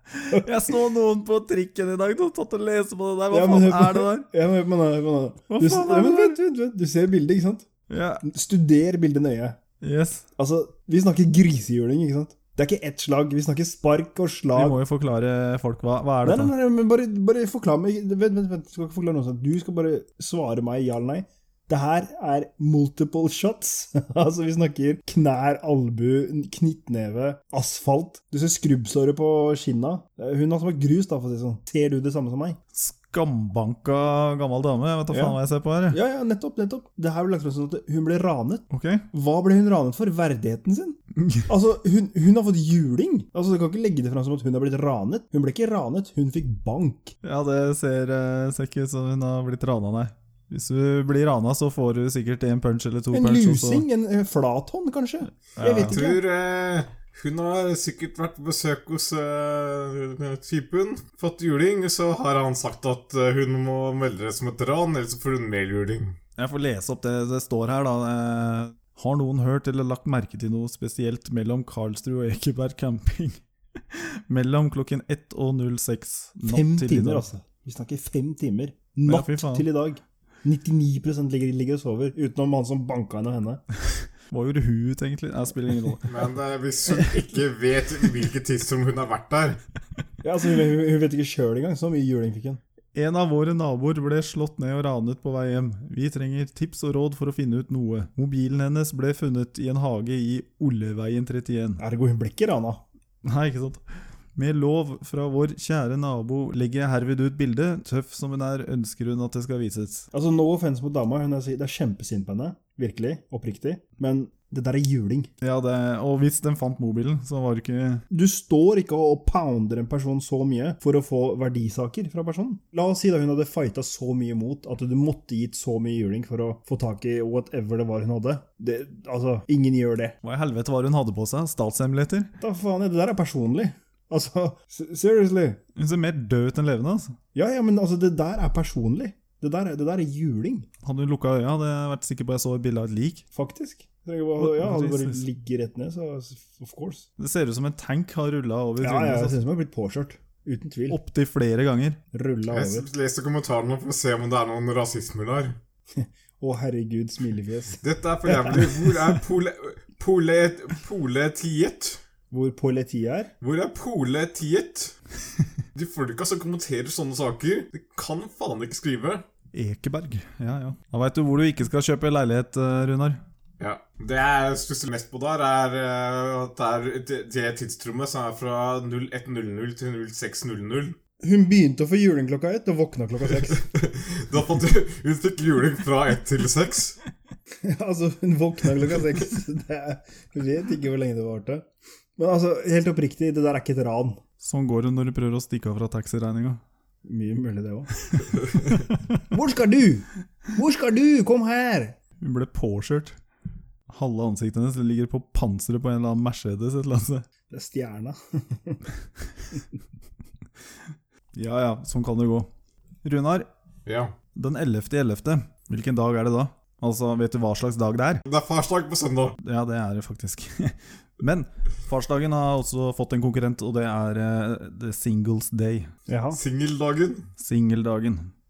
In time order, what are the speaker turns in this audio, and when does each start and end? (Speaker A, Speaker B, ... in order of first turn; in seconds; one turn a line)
Speaker A: 0.1-4.3
Speaker B: 3.3-7.7
Speaker A: 5.5-6.4
Speaker A: 7.9-8.2
Speaker B: 8.2-9.6
Speaker A: 9.8-10.2
Speaker B: 10.4-14.8
Speaker A: 14.5-16.5
Speaker B: 16.2-32.6
Speaker A: 32.7-36.0
Speaker B: 35.1-35.4
Speaker B: 35.9-47.2
Speaker A: 38.7-39.0
Speaker A: 41.2-41.5
Speaker A: 47.2-53.9
Speaker B: 53.1-56.2
Speaker A: 55.6-56.0
Speaker C: 55.9-66.1
Speaker A: 66.4-77.2
Speaker B: 76.5-83.6
Speaker A: 79.1-79.7
Speaker A: 84.3-86.3
Speaker C: 86.1-89.6
Speaker B: 90.2-92.6
Speaker A: 93.0-101.8
Speaker B: 101.8-102.8
Speaker A: 103.2-103.8
Speaker A: 104.3-110.1
Speaker B: 110.1-115.3
Speaker A: 115.4-118.0
Speaker B: 118.1-130.2
Speaker A: 130.2-132.3
Speaker B: 132.4-135.6
Speaker A: 135.8-137.2
Speaker B: 137.3-140.7
Speaker A: 140.8-143.2
Speaker B: 143.3-147.1
Speaker A: 144.4-145.2
Speaker A: 147.2-149.4
Speaker B: 148.8-151.0
Speaker A: 150.9-152.0
Speaker B: 152.1-152.9
Speaker C: 152.5-155.6
Speaker B: 155.9-158.9
Speaker C: 157.8-162.0
Speaker B: 162.3-163.3
Speaker C: 163.4-164.9
Speaker C: 165.8-169.2
Speaker A: 169.5-173.2
Speaker C: 173.6-181.0
Speaker B: 181.2-183.7
Speaker C: 183.5-187.0
Speaker B: 187.6-194.2
Speaker A: 194.4-196.6
Speaker B: 197.1-198.2
Speaker B: 199.3-202.0
Speaker A: 202.2-203.2
Speaker A: 203.9-207.2
Speaker B: 207.5-208.8
Speaker A: 211.3-212.5
Speaker A: 213.0-213.5
Speaker C: 213.9-214.1
Speaker A: 214.3-218.2
Speaker C: 218.3-219.4
Speaker A: 219.4-225.9
Speaker B: 226.1-226.4
Speaker C: 226.3-227.3
Speaker A: 227.4-228.3